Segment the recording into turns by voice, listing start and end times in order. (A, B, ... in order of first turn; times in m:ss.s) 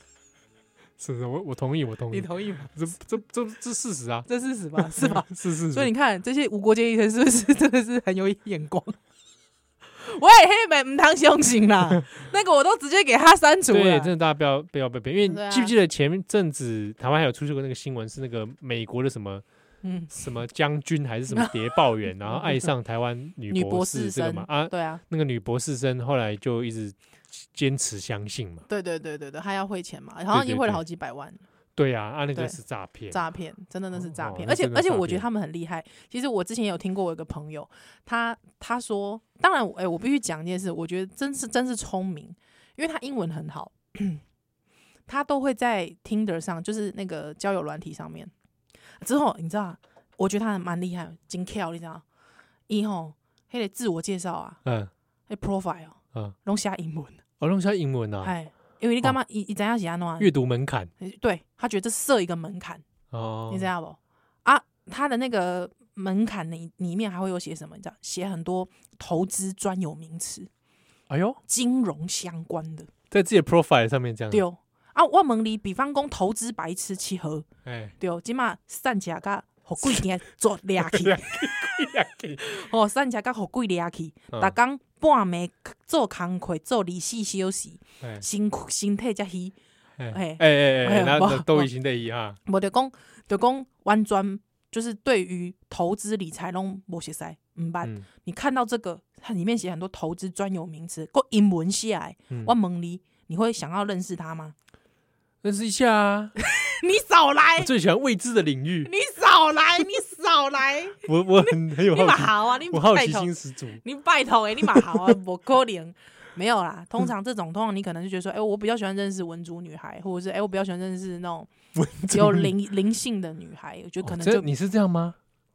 0:01.0-0:05.9 A
0:02.1-0:02.7 B
0:04.3-0:09.0 B
0:10.0-0:14.1 B
0:13.7-0:19.4 A
0:15.3-0:15.7 B
0:19.8-0:20.1 B
0:20.1-0:28.6 A
0:22.4-0:22.6 B
0:23.5-0:25.0 B
0:28.7-0:31.4 B
0:30.3-0:30.8 A
0:31.8-0:33.2 A
0:33.1-0:44.2 B
0:33.9-0:35.3 A
0:45.1-0:48.3 B
0:49.0-0:52.0 B
0:52.7-0:54.6 B
0:54.6-0:54.9 A
0:55.3-0:57.2 B
0:57.4-0:58.3 A
0:58.2-1:00.3 B
1:00.2-1:00.9 A
1:01.0-1:02.8 B
1:03.1-1:03.7 A
1:03.5-1:10.5 B
1:11.1-1:11.4 A
1:11.5-1:12.9 B
1:13.1-1:14.4 A
1:14.3-1:17.5 B
1:17.6-1:18.0 A
1:18.0-1:21.5 B
1:20.8-1:22.4 A
1:22.4-1:29.5 B
1:30.0-1:32.4 A
1:30.1-1:31.7 B
1:32.5-1:44.6 B
1:45.4-1:46.4 A
1:46.6-1:47.7 B
1:47.6-1:48.9 A
1:48.8-1:53.3 B
1:51.0-1:53.8 A
1:53.8-2:01.5 B
1:54.7-1:55.1 A
2:01.8-2:02.5 A
2:02.0-2:04.5 B
2:04.0-2:05.2 A